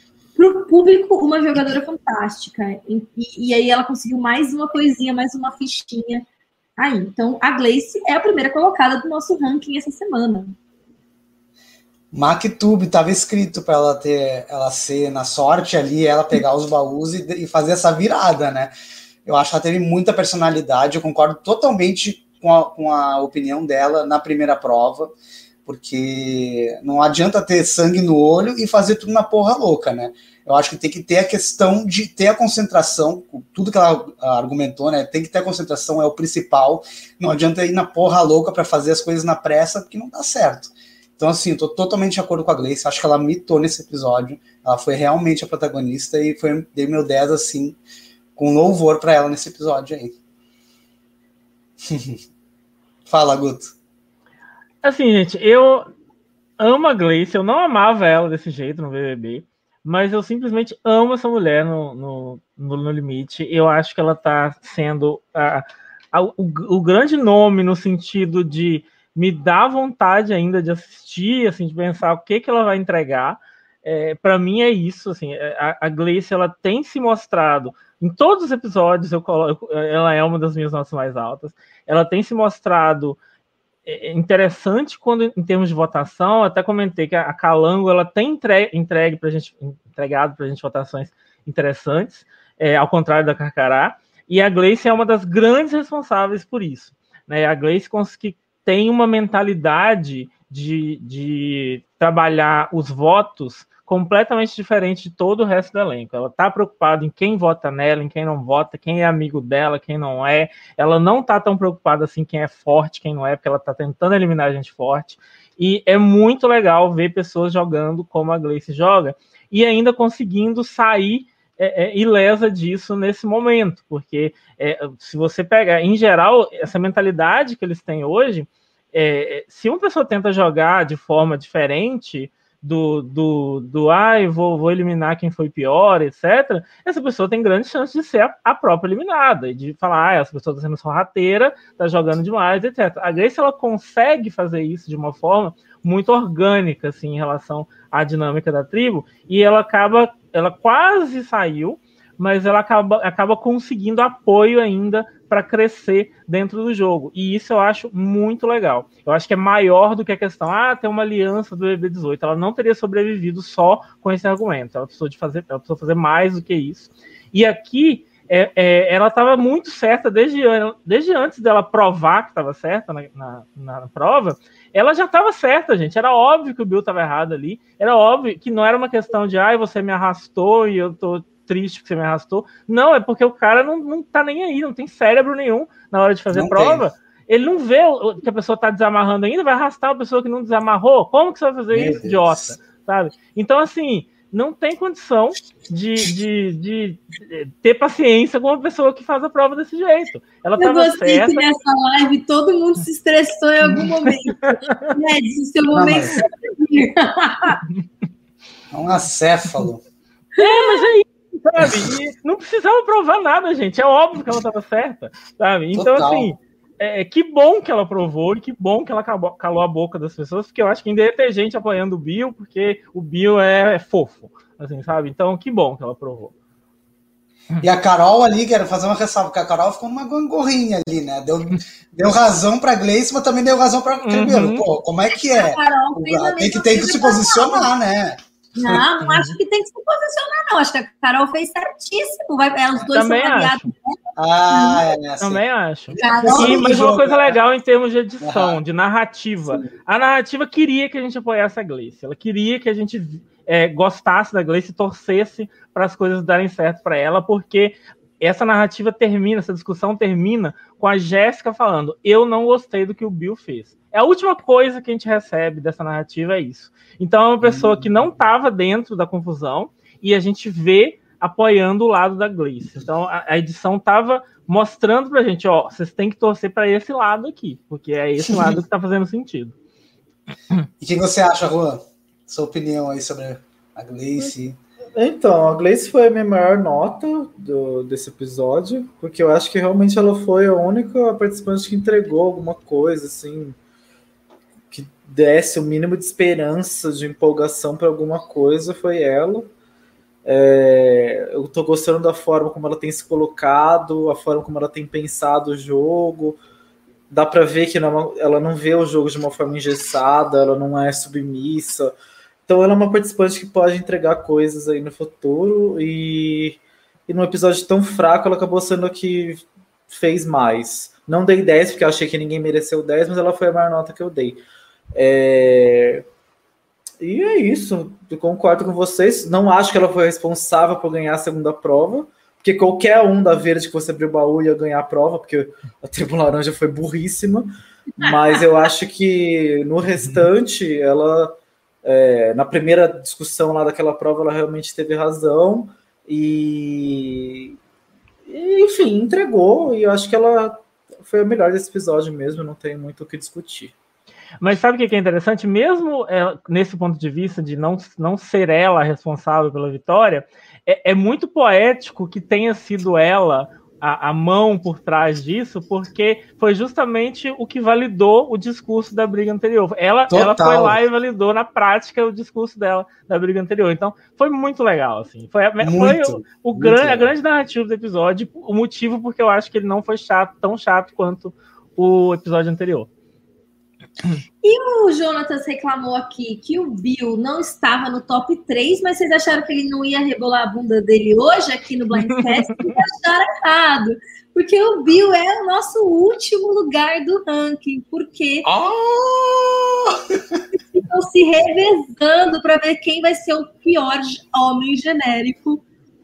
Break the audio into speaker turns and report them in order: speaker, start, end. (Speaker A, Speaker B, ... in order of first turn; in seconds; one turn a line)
Speaker A: 0.4-6.2
Speaker A: 6.8-10.6
Speaker B: 12.1-18.7
Speaker B: 19.3-25.1
Speaker B: 25.7-47.8
Speaker B: 48.4-50.1
Speaker B: 51.9-52.2
Speaker B: 53.1-53.7
Speaker C: 54.8-55.9
Speaker C: 56.6-83.2
Speaker C: 83.9-201.5
Speaker B: 186.3-186.8
Speaker B: 191.7-192.5
Speaker A: 200.6-207.6
Speaker B: 205.7-206.2
Speaker B: 208.7-209.8
Speaker A: 210.4-210.9
Speaker C: 210.4-226.3
Speaker B: 211.6-211.9
Speaker B: 215.7-216.3
Speaker B: 227.6-238.8
Speaker C: 234.0-234.7
Speaker A: 235.3-237.7
Speaker A: 238.6-244.0
Speaker C: 239.0-239.4
Speaker C: 242.9-243.7
Speaker B: 244.2-247.4
Speaker A: 244.5-244.8
Speaker C: 245.2-279.5
Speaker A: 246.0-246.8
Speaker B: 248.2-248.6
Speaker B: 267.4-267.8
Speaker B: 278.2-278.6
Speaker B: 280.8-284.6
Speaker D: 285.0-293.6
Speaker D: 294.7-299.5
Speaker D: 300.2-306.4
Speaker D: 307.1-311.9
Speaker D: 312.5-324.4
Speaker D: 324.9-326.1
Speaker D: 327.0-347.6
Speaker D: 348.3-353.8
Speaker C: 354.4-382.9
Speaker B: 370.1-370.8
Speaker B: 375.6-377.1
Speaker A: 384.4-398.5
Speaker B: 398.4-400.4
Speaker A: 400.8-405.6